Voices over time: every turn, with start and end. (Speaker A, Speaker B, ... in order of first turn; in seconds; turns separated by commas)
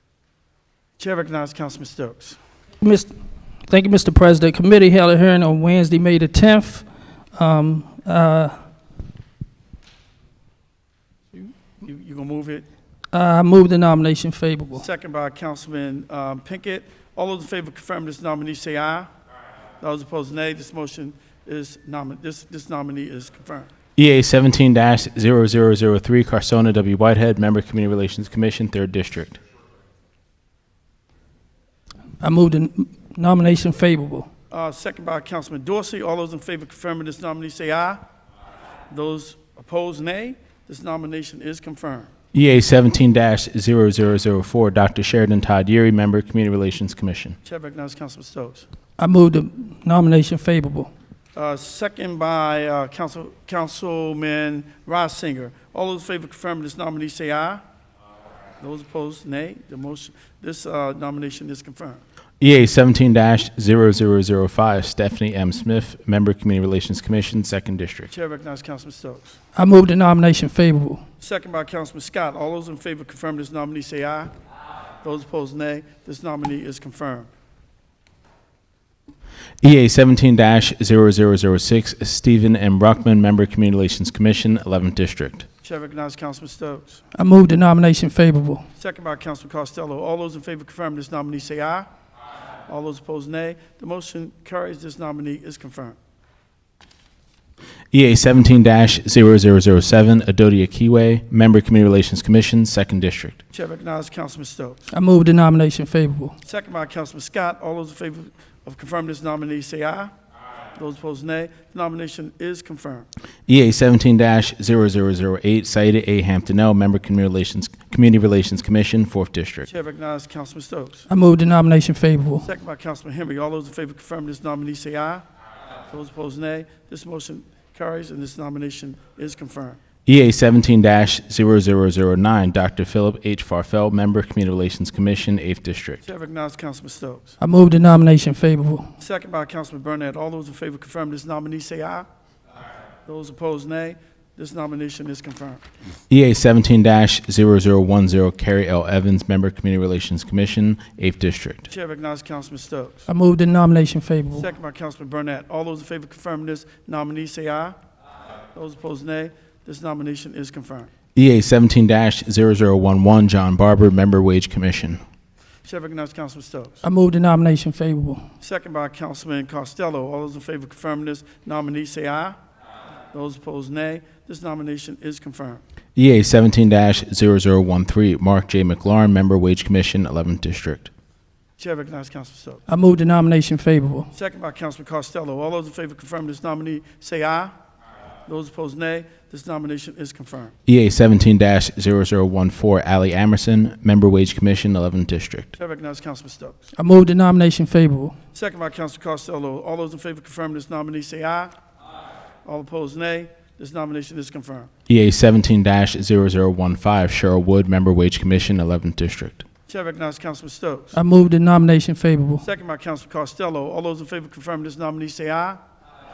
Speaker A: 1.0-2.4, Speaker B: 2.8-3.1, Speaker B: 3.7-6.8, Speaker B: 7.3-8.5, Speaker A: 11.4-12.7, Speaker B: 13.1-14.8, Speaker A: 14.7-19.1, Speaker A: 19.8-23.7, Speaker C: 23.9-29.4, Speaker B: 32.2-34.3, Speaker A: 34.5-38.0, Speaker A: 38.9-42.1, Speaker C: 42.3-47.4, Speaker A: 47.4-48.7, Speaker B: 49.0-50.9, Speaker A: 51.3-57.6, Speaker A: 58.6-62.0, Speaker C: 62.4-68.1, Speaker A: 68.1-69.4, Speaker B: 69.5-71.0, Speaker A: 71.2-74.3, Speaker A: 75.0-77.3, Speaker C: 79.6-85.5, Speaker A: 85.6-87.0, Speaker B: 87.1-88.7, Speaker A: 88.8-91.9, Speaker A: 92.7-96.0, Speaker C: 97.9-103.4, Speaker A: 103.5-104.8, Speaker B: 104.9-106.3, Speaker A: 106.4-110.1, Speaker A: 110.8-113.1, Speaker C: 113.5-119.7, Speaker A: 119.7-121.0, Speaker B: 121.1-122.5, Speaker A: 122.4-125.2, Speaker A: 125.9-129.8, Speaker C: 130.1-136.0, Speaker A: 136.0-137.3, Speaker B: 137.4-138.9, Speaker A: 139.0-142.1, Speaker A: 143.1-145.6, Speaker C: 146.1-151.7, Speaker A: 151.7-153.1, Speaker B: 153.1-154.5, Speaker A: 154.3-157.8, Speaker A: 158.5-160.9, Speaker C: 161.1-165.0, Speaker A: 165.6-166.8, Speaker B: 166.8-168.2, Speaker A: 168.4-172.4, Speaker A: 173.1-175.6, Speaker C: 175.9-180.9, Speaker A: 181.6-182.6, Speaker B: 182.7-184.1, Speaker A: 184.1-187.5, Speaker A: 188.3-190.5, Speaker C: 190.7-195.5, Speaker A: 195.6-196.6, Speaker B: 196.8-198.2, Speaker A: 198.3-201.5, Speaker A: 202.4-204.7, Speaker C: 204.9-209.4, Speaker A: 209.7-211.0, Speaker B: 210.9-212.4, Speaker A: 212.4-215.6